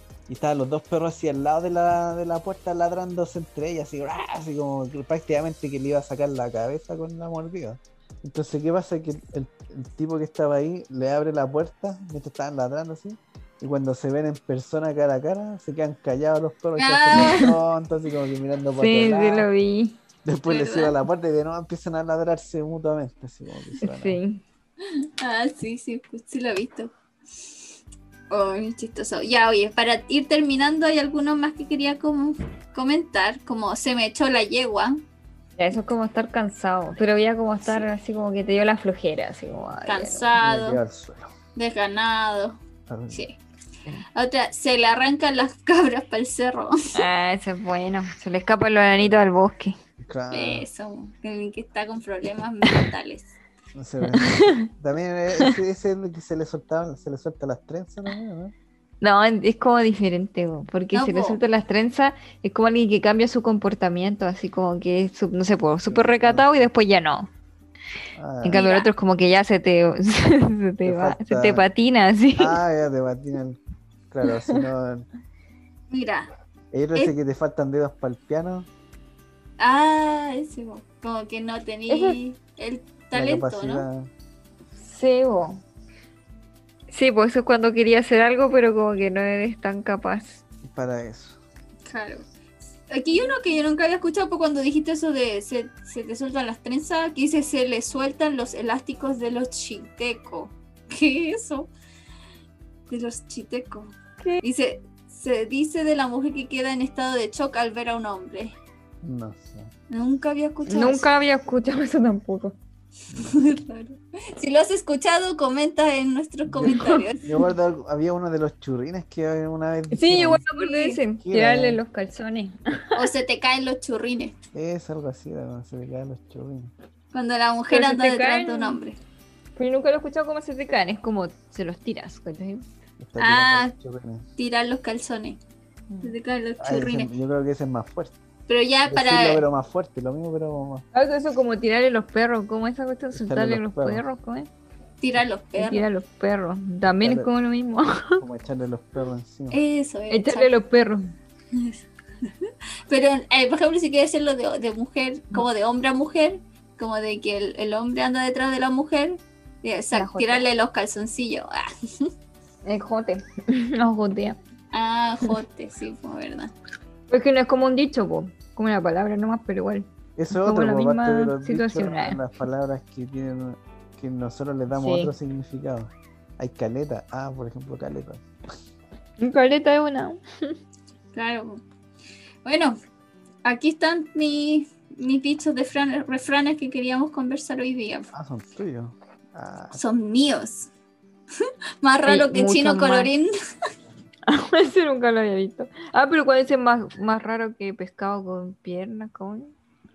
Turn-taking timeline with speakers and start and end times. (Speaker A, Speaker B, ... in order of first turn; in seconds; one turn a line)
Speaker A: 0.3-19.5
Speaker B: 16.8-17.6
Speaker C: 18.8-20.0
Speaker A: 20.2-24.2
Speaker B: 20.5-21.0
Speaker C: 23.8-24.4
Speaker B: 24.8-26.9
Speaker B: 28.3-35.0
Speaker C: 35.6-40.3
Speaker B: 39.9-40.8
Speaker A: 40.4-41.3
Speaker B: 41.6-42.6
Speaker A: 42.9-43.2
Speaker B: 44.1-47.1
Speaker C: 47.0-49.8
Speaker A: 50.0-50.7
Speaker B: 50.3-53.4
Speaker A: 53.8-58.5
Speaker C: 54.0-54.7
Speaker C: 59.0-67.3
Speaker B: 60.9-61.4
Speaker A: 65.9-66.5
Speaker A: 68.2-68.6
Speaker C: 68.4-72.6
Speaker B: 68.5-68.9
Speaker A: 70.8-71.7
Speaker A: 72.4-73.6
Speaker A: 74.1-75.1
Speaker C: 74.3-74.6
Speaker B: 75.9-76.3
Speaker A: 76.7-78.7
Speaker B: 79.6-83.8
Speaker C: 81.9-82.2
Speaker A: 83.1-84.1
Speaker C: 84.8-85.6
Speaker C: 86.9-90.4
Speaker A: 90.6-91.4
Speaker B: 91.9-92.3
Speaker B: 92.9-101.7
Speaker B: 102.9-108.5
Speaker A: 109.0-109.7
Speaker B: 109.9-111.1
Speaker C: 110.7-112.6
Speaker B: 113.2-117.4
Speaker A: 116.5-120.4
Speaker C: 116.6-117.1
Speaker C: 119.9-123.0
Speaker B: 120.6-121.0
Speaker A: 121.2-121.8
Speaker B: 123.0-124.3
Speaker A: 124.5-126.7
Speaker B: 127.1-129.0
Speaker C: 127.7-128.8
Speaker C: 129.6-132.7
Speaker A: 133.0-134.3
Speaker B: 133.2-133.7
Speaker B: 134.4-135.4
Speaker C: 135.9-136.2
Speaker B: 136.0-137.1
Speaker A: 136.6-138.2
Speaker B: 138.5-139.4
Speaker A: 138.9-140.9
Speaker C: 140.9-144.5
Speaker A: 143.1-144.0
Speaker B: 145.0-145.8
Speaker C: 145.6-148.2
Speaker A: 147.0-147.3
Speaker A: 148.2-149.6
Speaker B: 149.5-150.5
Speaker C: 150.1-151.0
Speaker B: 151.5-162.1
Speaker C: 159.9-160.5
Speaker C: 162.7-164.4
Speaker B: 164.7-166.5
Speaker C: 167.1-172.2
Speaker A: 170.2-178.2
Speaker C: 174.7-175.1
Speaker C: 179.2-180.6
Speaker B: 181.1-181.6
Speaker B: 182.4-182.8
Speaker B: 183.4-188.1
Speaker A: 188.1-189.8
Speaker B: 189.8-190.7
Speaker B: 191.4-193.3
Speaker C: 192.1-193.1
Speaker C: 194.3-199.5